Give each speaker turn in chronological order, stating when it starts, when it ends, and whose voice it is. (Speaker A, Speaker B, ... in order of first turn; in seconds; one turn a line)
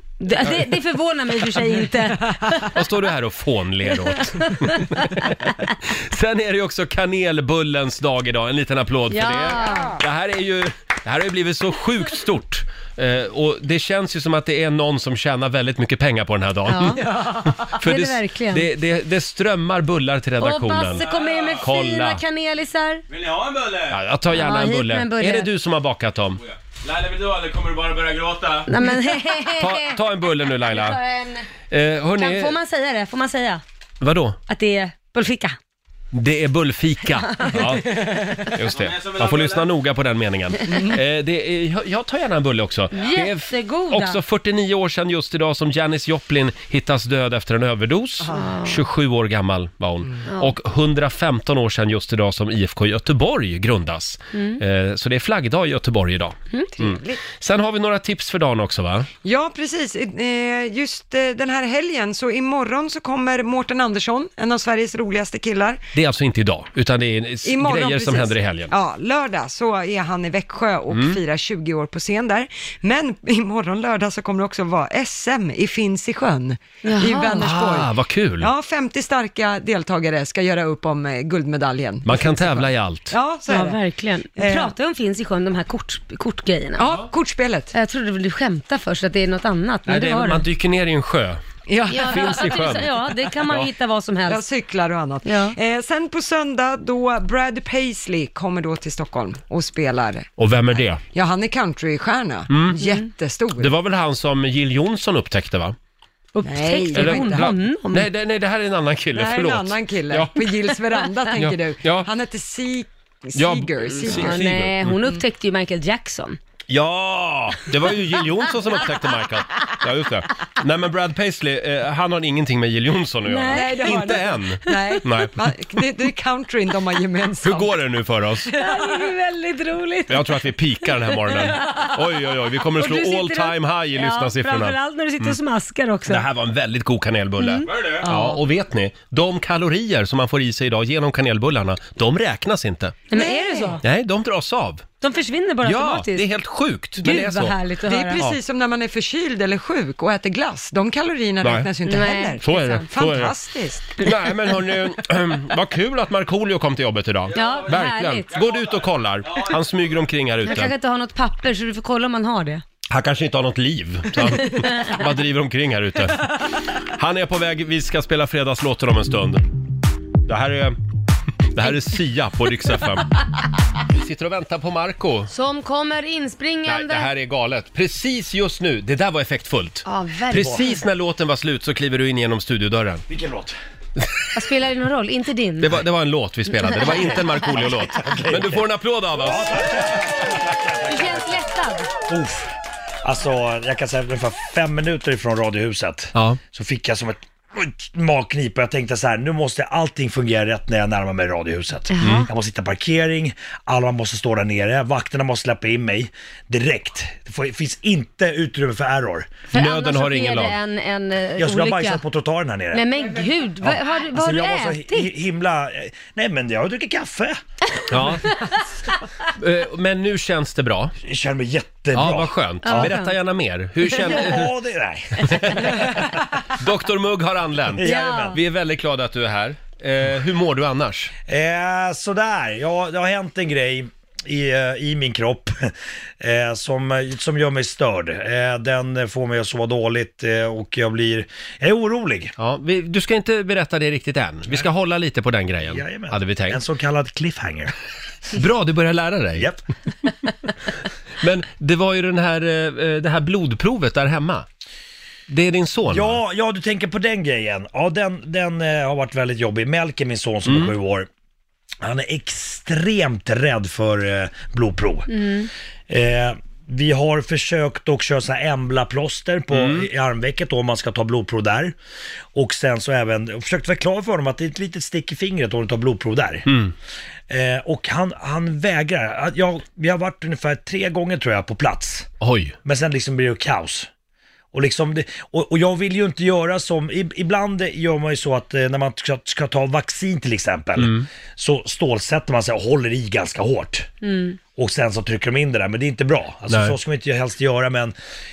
Speaker A: 0.2-2.8
Speaker B: 2.6-21.1
Speaker A: 4.2-5.1
Speaker A: 9.1-10.0
Speaker A: 16.7-17.2
Speaker C: 17.1-17.6
Speaker A: 17.7-18.7
Speaker A: 20.4-23.0
Speaker D: 21.0-21.7
Speaker B: 21.6-22.2
Speaker D: 23.1-24.0
Speaker B: 23.9-26.4
Speaker A: 24.3-25.5
Speaker D: 26.4-28.7
Speaker A: 28.7-31.5
Speaker B: 29.6-31.0
Speaker B: 31.7-32.6
Speaker A: 32.2-33.6
Speaker B: 34.0-34.4
Speaker A: 34.5-35.6
Speaker B: 36.1-59.1
Speaker A: 37.3-37.6
Speaker D: 38.7-39.7
Speaker C: 40.7-41.0
Speaker A: 43.0-44.2
Speaker C: 48.2-48.5
Speaker A: 48.3-48.8
Speaker A: 54.3-54.6
Speaker C: 56.8-57.2
Speaker C: 59.2-65.8
Speaker B: 65.9-68.7
Speaker C: 67.4-83.8
Speaker B: 70.9-71.2
Speaker A: 76.8-77.5
Speaker B: 77.4-78.5
Speaker B: 82.0-83.2
Speaker A: 83.5-86.9
Speaker C: 84.4-84.7
Speaker C: 86.8-87.7
Speaker A: 87.7-90.5
Speaker B: 89.9-91.4
Speaker C: 91.7-92.7
Speaker A: 91.9-94.4
Speaker B: 92.0-92.9
Speaker C: 94.3-100.3
Speaker A: 95.2-95.6
Speaker B: 100.4-101.0
Speaker C: 101.0-103.7
Speaker B: 102.5-102.8
Speaker A: 102.8-103.1
Speaker B: 103.6-105.8
Speaker A: 106.3-108.1
Speaker C: 106.4-107.5
Speaker B: 106.9-110.5
Speaker C: 109.2-114.4
Speaker B: 111.4-112.1
Speaker B: 113.3-115.0
Speaker A: 114.1-116.4
Speaker B: 116.7-125.4
Speaker A: 123.3-125.0
Speaker C: 123.5-127.8
Speaker B: 127.4-128.5
Speaker C: 128.5-129.1
Speaker A: 128.6-130.5
Speaker B: 130.1-135.4
Speaker A: 131.4-131.9
Speaker A: 132.8-136.2
Speaker B: 136.1-143.0
Speaker A: 137.4-138.3
Speaker D: 137.7-138.1
Speaker A: 143.1-143.8
Speaker C: 143.1-143.8
Speaker B: 143.8-144.8
Speaker A: 145.0-146.3
Speaker B: 145.6-147.6
Speaker A: 147.0-148.2
Speaker C: 147.8-153.9
Speaker B: 151.4-151.7
Speaker A: 151.8-152.9
Speaker B: 152.4-153.3
Speaker B: 154.0-160.7
Speaker D: 157.3-157.7
Speaker A: 157.3-158.3
Speaker D: 158.3-159.6
Speaker A: 160.4-162.6
Speaker B: 162.9-166.3
Speaker A: 164.4-165.0
Speaker B: 166.9-169.4
Speaker B: 170.3-170.8
Speaker B: 171.5-173.1
Speaker B: 173.9-175.3
Speaker A: 175.3-177.1
Speaker B: 176.7-183.0
Speaker A: 179.8-180.8
Speaker E: 183.1-183.6
Speaker A: 184.3-185.8
Speaker B: 185.6-189.8
Speaker E: 187.4-191.4
Speaker A: 190.8-191.9
Speaker E: 192.1-192.5
Speaker E: 193.0-209.4
Speaker B: 196.2-196.4
Speaker A: 201.9-202.3
Speaker B: 202.0-202.3
Speaker A: 209.5-212.0
Speaker B: 209.5-210.6
Speaker E: 211.4-212.9
Speaker A: 212.7-215.1
Speaker E: 213.6-217.4
Speaker B: 217.9-218.3
Speaker B: 219.4-220.9
Speaker E: 221.0-222.9
Speaker B: 221.9-224.5
Speaker A: 222.7-223.1
Speaker E: 223.9-226.1
Speaker B: 225.2-225.9
Speaker B: 226.5-231.1
Speaker E: 227.8-228.4
Speaker A: 227.8-228.4
Speaker E: 231.3-242.3
Speaker B: 242.4-246.6
Speaker E: 245.6-247.7
Speaker B: 248.3-249.5
Speaker E: 249.4-249.6
Speaker B: 251.2-254.5
Speaker B: 255.3-256.2
Speaker E: 255.9-261.1
Speaker B: 260.5-260.7
Speaker E: 261.8-265.1
Speaker A: 265.1-265.5
Speaker E: 265.9-271.8
Speaker B: 269.5-269.9
Speaker E: 272.3-276.5
Speaker B: 276.5-276.7
Speaker E: 277.3-282.1
Speaker B: 282.2-282.6
Speaker E: 282.6-283.9
Speaker E: 284.5-293.9
Speaker B: 290.8-291.1
Speaker A: 294.0-294.4
Speaker E: 294.6-297.9
Speaker B: 296.5-296.8